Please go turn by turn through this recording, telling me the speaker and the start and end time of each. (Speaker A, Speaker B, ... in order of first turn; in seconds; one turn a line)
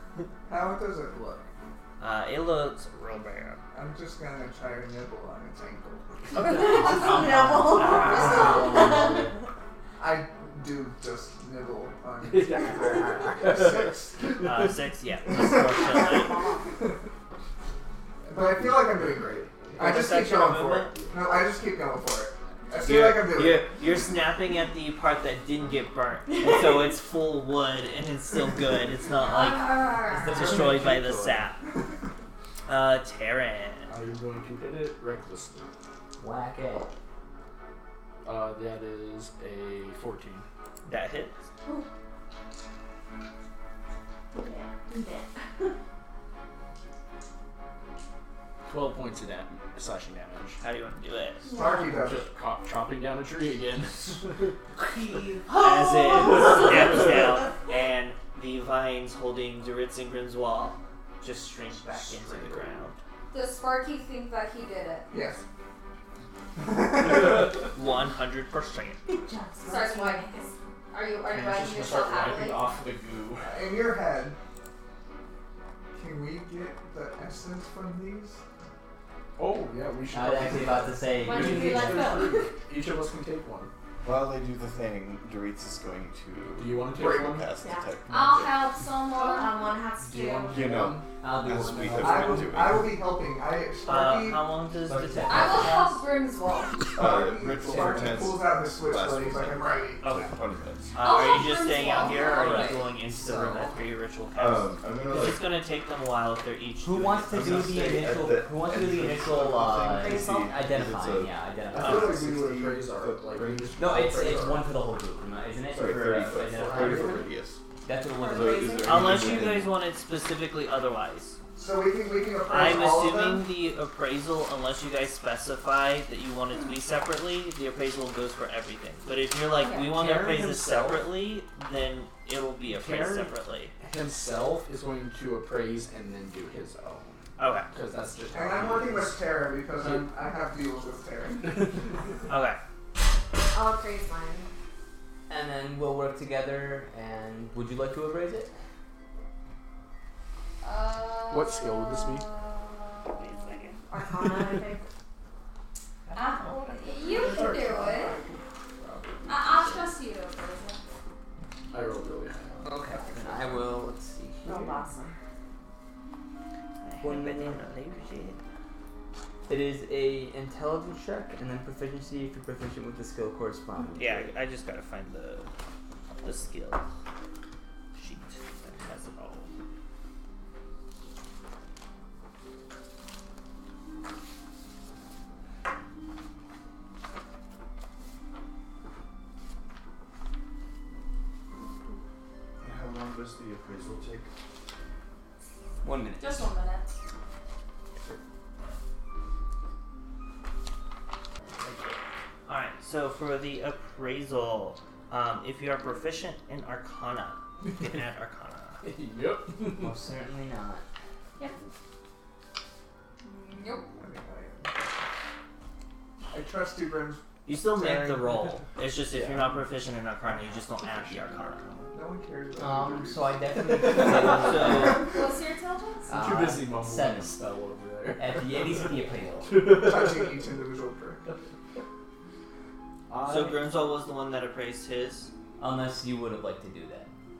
Speaker A: 0.5-1.5
Speaker B: 2.0-3.6
Speaker A: 3.7-6.2
Speaker B: 6.4-9.0
Speaker C: 6.4-9.3
Speaker D: 8.1-9.3
Speaker A: 8.2-8.5
Speaker A: 10.0-14.4
Speaker E: 12.2-14.7
Speaker B: 14.4-16.4
Speaker A: 15.3-16.0
Speaker C: 15.8-16.7
Speaker A: 18.3-23.7
Speaker B: 19.8-20.9
Speaker E: 20.9-21.2
Speaker B: 22.8-31.6
Speaker F: 29.3-30.2
Speaker D: 30.1-31.4
Speaker E: 30.6-30.9
Speaker B: 32.7-33.9
Speaker E: 33.9-35.7
Speaker D: 36.2-36.9
Speaker E: 38.2-40.5
Speaker B: 40.9-41.4
Speaker C: 44.3-45.7
Speaker E: 48.7-50.6
Speaker B: 50.6-51.5
Speaker C: 51.5-52.0
Speaker A: 51.5-52.3
Speaker E: 51.9-54.5
Speaker B: 55.5-63.0
Speaker C: 55.6-56.5
Speaker F: 63.3-65.1
Speaker A: 65.1-65.4
Speaker A: 66.6-67.6
Speaker B: 67.7-69.0
Speaker C: 69.1-70.5
Speaker F: 69.6-72.7
Speaker E: 71.2-73.8
Speaker A: 73.4-74.4
Speaker A: 75.9-78.4
Speaker E: 79.4-83.7
Speaker D: 80.1-82.2
Speaker C: 81.2-82.5
Speaker G: 84.0-88.7
Speaker E: 86.5-87.5
Speaker A: 87.0-87.4
Speaker C: 87.6-87.9
Speaker F: 88.1-89.8
Speaker C: 89.2-90.7
Speaker E: 90.0-91.1
Speaker G: 90.5-93.0
Speaker D: 91.2-92.6
Speaker A: 92.0-94.6
Speaker B: 93.8-95.9
Speaker D: 94.8-95.9
Speaker F: 95.3-97.0
Speaker A: 96.9-100.0
Speaker G: 97.0-100.9
Speaker E: 97.7-98.3
Speaker B: 100.0-100.3
Speaker B: 100.9-108.0
Speaker F: 101.0-102.7
Speaker D: 102.2-103.7
Speaker G: 104.4-105.5
Speaker D: 106.8-112.4
Speaker G: 107.3-114.0
Speaker E: 111.7-114.7
Speaker D: 113.8-117.2
Speaker G: 115.7-117.6
Speaker E: 115.8-117.3
Speaker D: 117.8-119.4
Speaker C: 118.1-119.1
Speaker G: 118.3-119.7
Speaker B: 118.8-121.4
Speaker A: 121.5-123.5
Speaker B: 122.5-133.7
Speaker E: 129.9-131.1
Speaker E: 132.7-140.1
Speaker B: 137.4-137.7
Speaker A: 138.3-141.8
Speaker B: 142.3-142.6
Speaker C: 143.5-144.5
Speaker D: 145.3-148.5
Speaker F: 150.6-153.1
Speaker E: 151.3-152.3
Speaker B: 153.1-153.8
Speaker C: 153.9-154.9
Speaker B: 156.1-156.8
Speaker F: 156.1-158.2
Speaker A: 156.9-159.9
Speaker F: 159.3-160.8
Speaker E: 161.7-162.6
Speaker D: 162.6-164.8
Speaker C: 164.4-165.2
Speaker B: 166.8-168.4
Speaker D: 167.0-167.6
Speaker D: 169.5-174.3
Speaker B: 174.0-175.5
Speaker B: 176.2-176.8
Speaker B: 177.9-179.5
Speaker G: 192.6-194.3
Speaker D: 195.8-196.5
Speaker F: 196.2-196.9
Speaker B: 201.6-201.9
Speaker B: 202.5-208.8
Speaker E: 207.6-207.9
Speaker E: 208.8-210.0
Speaker D: 209.8-210.8
Speaker F: 213.2-213.9
Speaker A: 213.9-215.1
Speaker A: 216.3-218.1
Speaker B: 217.4-221.7
Speaker E: 219.2-219.4
Speaker G: 220.3-221.9
Speaker A: 221.9-223.4
Speaker D: 222.6-225.1
Speaker E: 223.6-224.7
Speaker B: 224.2-225.0
Speaker F: 224.8-226.1
Speaker D: 226.1-227.4
Speaker E: 226.1-230.5
Speaker D: 228.2-229.6
Speaker A: 229.7-231.2
Speaker E: 233.1-233.7
Speaker B: 233.2-235.3
Speaker D: 235.6-237.1